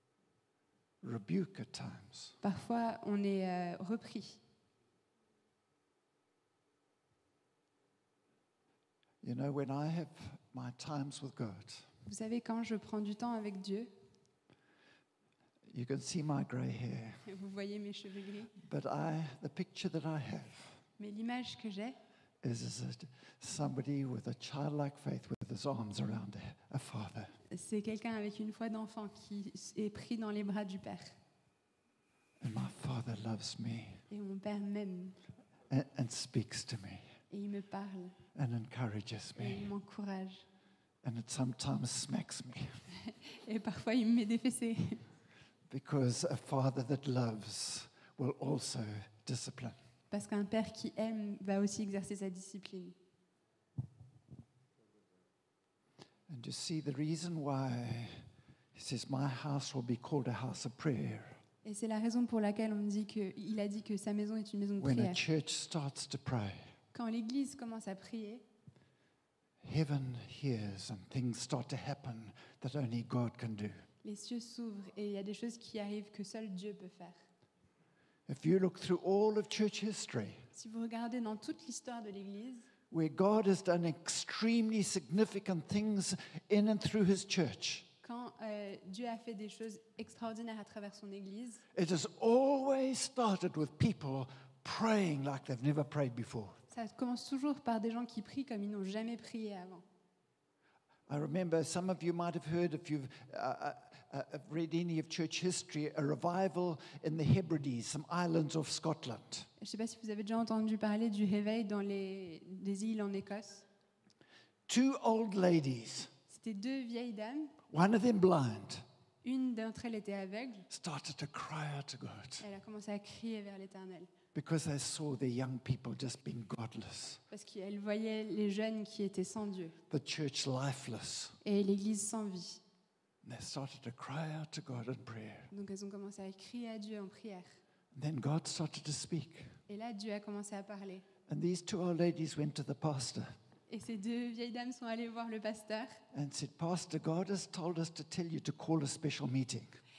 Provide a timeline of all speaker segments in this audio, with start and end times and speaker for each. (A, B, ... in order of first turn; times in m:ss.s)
0:01.0-0:02.4 A
0:02.4-0:04.4 B
0:09.2-0:11.9 A
0:12.1-0:13.9 B
0:15.7-0:17.2 A
0:17.3-0:18.5 B
0:18.6-0:20.8 A
0:21.0-0:22.0 B
0:22.4-0:27.4 A
0:27.5-0:31.2 B
0:32.4-0:34.0 A
0:34.1-0:35.2 B
0:35.7-0:37.1 A
0:37.3-0:38.2 B
0:38.4-0:39.7 A
0:39.4-0:40.5 B
0:41.0-0:42.7 A
0:43.0-0:45.0 B
0:45.7-0:49.8 A
0:50.1-0:53.0 B
0:56.3-1:01.4 A
1:01.6-1:05.2 B
1:04.8-1:06.7 A
1:06.9-1:08.4 B
1:09.6-1:13.9 A
1:14.0-1:17.2 B
1:18.3-1:20.4 A
1:20.5-1:22.7 B
1:22.9-1:27.9 A
1:28.0-1:31.6 B
1:31.7-1:36.6 A
1:36.7-1:39.8 B
1:41.1-1:49.5 A
1:49.6-1:53.7 B
1:54.7-1:56.1 A
1:56.3-1:57.6 B
1:57.7-1:58.8 A
1:59.2-2:00.7 B
2:00.7-2:02.4 A
2:02.4-2:04.1 B
2:04.3-2:07.2 A
2:07.3-2:09.8 B
2:09.9-2:11.4 A
2:11.4-2:12.6 B
2:13.2-2:15.5 A
2:15.5-2:17.6 B
2:17.9-2:19.6 A
2:19.7-2:21.0 B
2:21.3-2:23.3 A
2:23.7-2:26.0 B
2:26.1-2:29.8 A